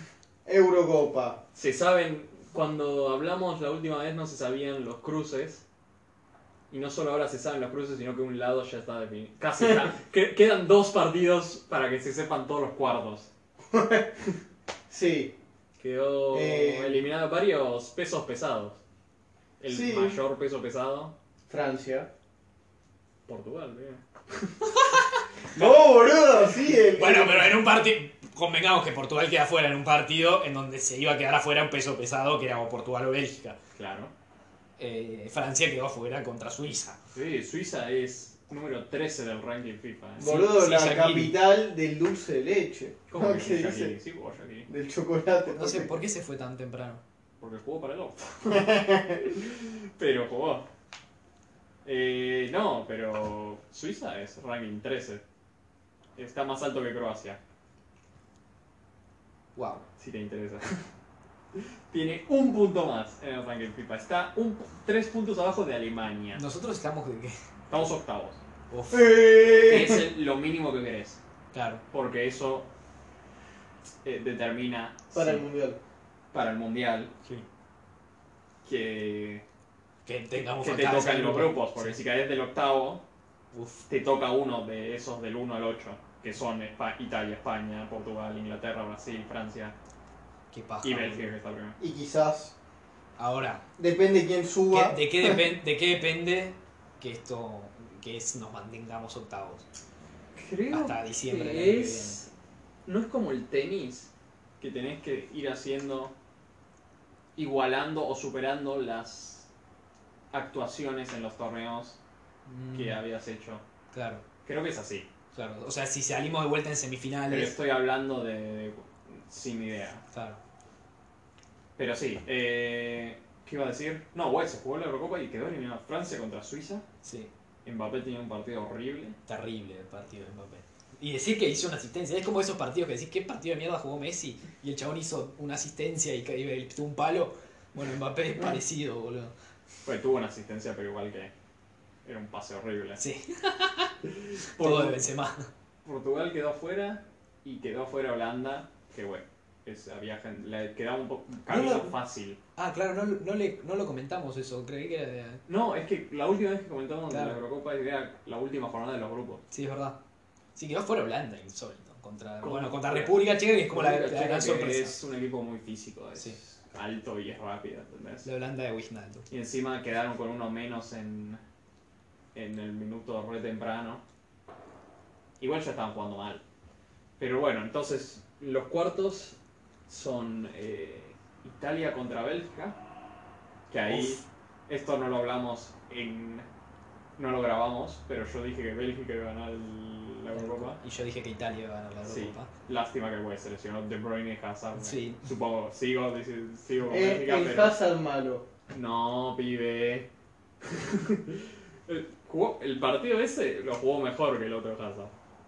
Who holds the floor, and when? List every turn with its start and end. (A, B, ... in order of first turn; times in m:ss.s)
0:00.4-0:01.4 A
0:01.5-0:05.6 B
0:06.7-0:13.3 B
0:13.7-0:14.2 A
0:14.9-0:15.4 A
0:15.8-0:18.8 B
0:16.3-0:17.0 A
0:19.6-0:21.1 B
0:19.7-0:20.2 A
0:21.5-0:22.1 A
0:23.3-0:24.0 B
0:25.5-0:26.3 B
0:25.5-0:27.6 A
0:26.9-0:33.6 C
0:33.8-0:34.1 B
0:34.8-0:37.0 C
0:37.1-0:40.4 B
0:40.2-0:44.0 A
0:40.2-0:41.4 C
0:43.1-0:44.7 B
0:44.7-0:45.9 A
0:45.5-0:47.0 C
0:47.4-0:50.7 B
0:48.5-0:49.2 A
0:51.8-0:55.2 B
0:56.2-0:57.4 B
0:59.5-0:59.9 C
1:00.0-1:00.8 B
1:01.5-1:06.4 B
1:06.3-1:07.4 C
1:07.7-1:08.4 B
1:08.7-1:09.2 C
1:08.9-1:10.1 A
1:09.5-1:11.2 B
1:11.5-1:11.8 C
1:11.9-1:12.7 B
1:14.0-1:15.4 B
1:15.1-1:15.8 A
1:16.3-1:17.1 B
1:18.6-1:19.4 B
1:20.0-1:22.0 C
1:20.4-1:23.0 B
1:23.5-1:23.8 C
1:23.9-1:29.8 B
1:30.5-1:31.3 C
1:30.8-1:31.8 B
1:31.8-1:32.5 A
1:33.2-1:33.6 C
1:33.8-1:35.4 A
1:34.7-1:39.6 C
1:40.4-1:42.3 B
1:40.7-1:42.2 C
1:42.9-1:46.1 B
1:47.4-1:49.5 B
1:50.3-1:52.0 B
1:52.5-1:53.0 C
1:52.7-1:53.6 B
1:53.9-1:54.2 C
1:54.4-1:55.1 B
1:55.3-1:57.6 C
1:57.3-2:00.0 B
2:00.1-2:00.4 C
2:01.8-2:06.8 B
2:07.0-2:07.3 C
2:07.6-2:09.2 B
2:09.3-2:19.3 C
2:19.8-2:21.3 B
2:22.0-2:23.0 B
2:23.0-2:24.0 C
2:24.2-2:25.0 B
2:24.6-2:25.5 C
2:25.8-2:32.4 B
2:31.5-2:31.9 C
2:32.6-2:35.4 C
2:35.5-2:39.4 B
2:37.1-2:37.4 C
2:39.5-2:40.0 C
2:40.5-2:45.0 C
2:42.4-2:48.3 B
2:48.2-2:49.3 C
2:49.3-2:51.4 B
2:52.3-2:54.0 B
2:55.4-2:56.4 B
2:57.2-3:02.8 B
3:03.7-3:06.5 B
3:03.9-3:04.2 C
3:07.2-3:10.8 B
3:10.3-3:12.5 C
3:12.1-3:17.8 B
3:14.8-3:15.2 C
3:16.9-3:18.5 A
3:18.7-3:20.1 B
3:20.6-3:25.1 B